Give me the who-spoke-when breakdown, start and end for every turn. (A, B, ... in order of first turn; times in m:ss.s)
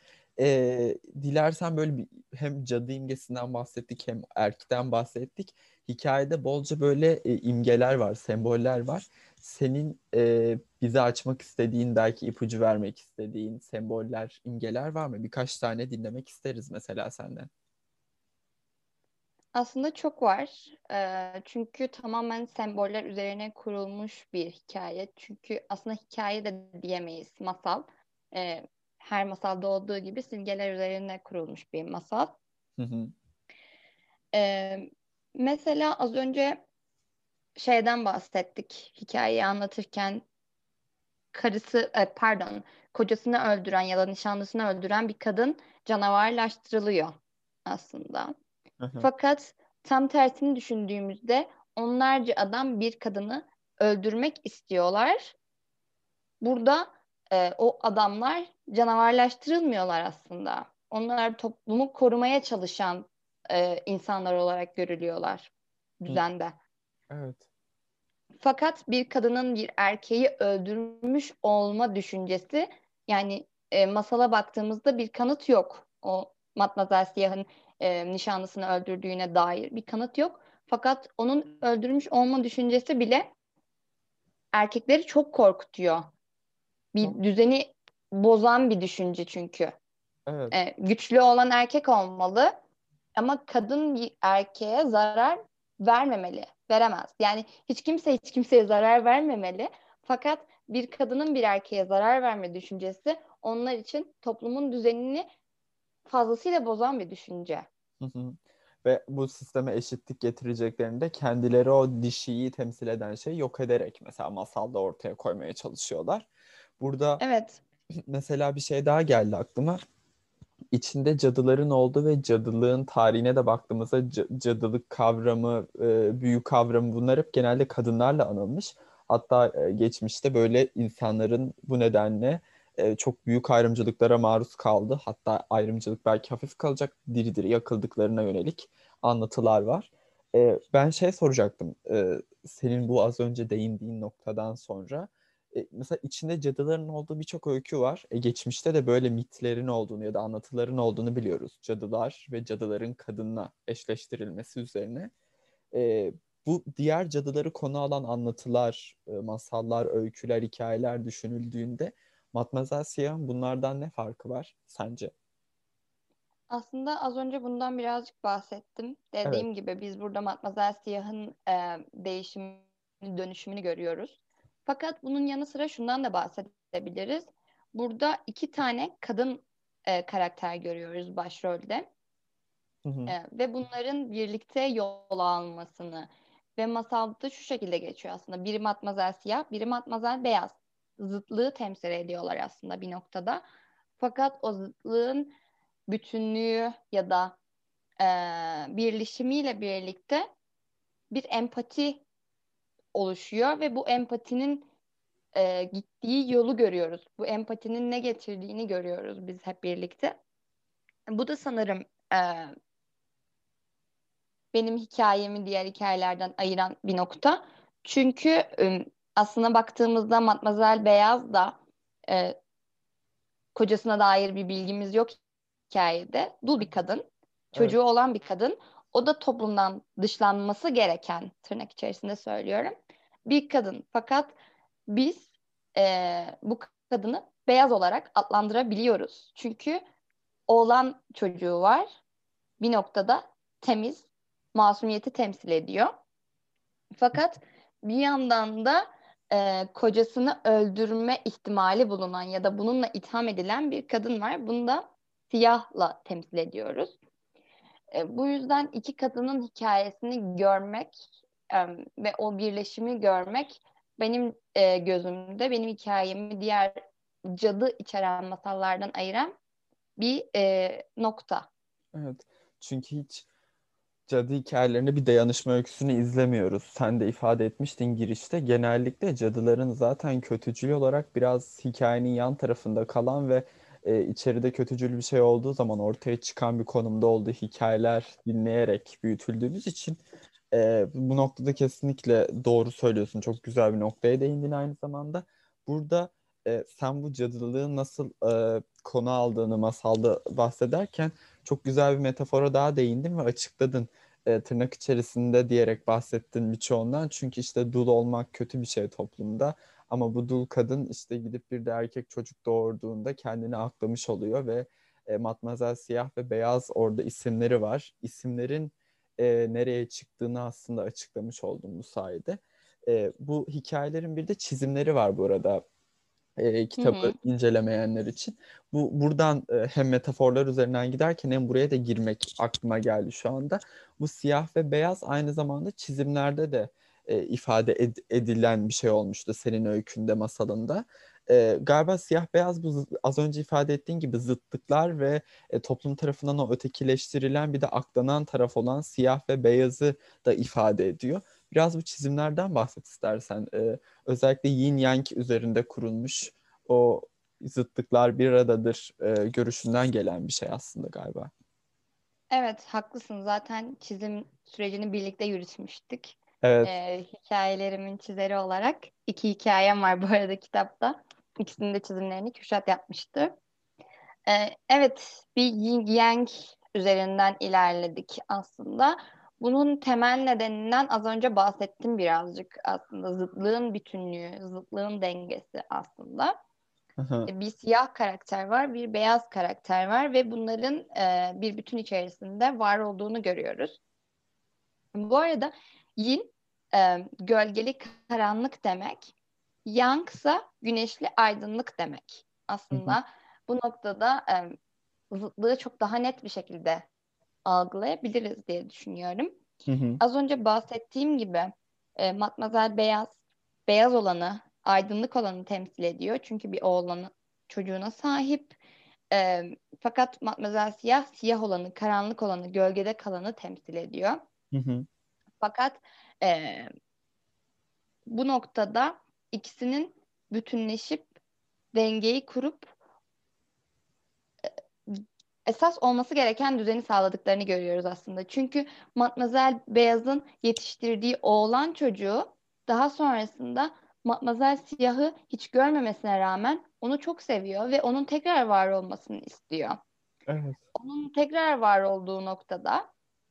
0:00.4-0:17.5 A
0:19.5-0:32.4 B
0:32.8-0:33.1 A
0:34.3-0:36.6 B
0:37.6-0:40.2 B
0:41.3-0:48.3 B
0:48.8-0:49.1 A
0:49.0-0:55.4 B
0:56.4-1:06.6 B
1:07.1-1:07.4 A
1:08.4-1:23.3 B
1:24.5-1:26.1 B
1:26.9-1:29.8 B
1:30.3-1:30.6 A
1:30.5-1:32.5 B
1:33.2-1:45.3 B
1:46.1-1:47.7 B
1:48.0-1:56.3 A
1:56.8-1:57.2 A
1:57.2-1:57.6 B
1:58.1-1:59.8 A
2:00.7-2:35.1 A
2:35.7-2:45.1 A
2:46.5-3:01.9 B
3:02.8-3:03.1 A
3:03.1-3:13.4 B
3:14.0-3:15.3 B
3:15.9-3:17.4 B
3:18.0-3:20.3 B
3:21.1-3:22.0 B
3:22.9-3:24.7 B
3:25.3-3:30.2 B
3:31.1-3:32.6 B
3:34.5-3:42.4 B
3:43.6-3:45.2 B
3:45.7-3:52.8 B
3:53.3-3:54.4 B
3:54.9-3:59.8 B
4:00.5-4:02.0 B
4:02.6-4:05.9 B
4:07.0-4:17.0 B
4:17.9-4:29.3 B
4:30.0-4:31.5 B
4:31.9-4:33.3 A
4:34.1-4:50.0 A
4:50.5-5:25.6 A
5:26.4-6:01.3 A
5:26.8-5:27.1 B
6:02.3-6:13.4 B
6:06.4-6:06.8 A
6:14.3-6:26.4 B
6:27.0-6:27.3 A
6:27.3-6:33.8 B
6:34.9-6:39.1 B
6:39.7-6:44.6 B
6:42.7-6:43.0 A
6:45.1-6:46.9 B
6:47.5-6:49.4 B
6:49.7-6:50.0 A
6:50.0-6:53.2 B
6:53.7-6:58.6 B
6:59.1-7:04.2 B
7:04.5-7:04.9 A
7:05.4-7:06.7 B
7:08.1-7:11.1 B
7:11.7-7:12.7 B
7:14.9-7:29.8 B
7:30.3-7:30.6 A
7:30.8-7:32.9 B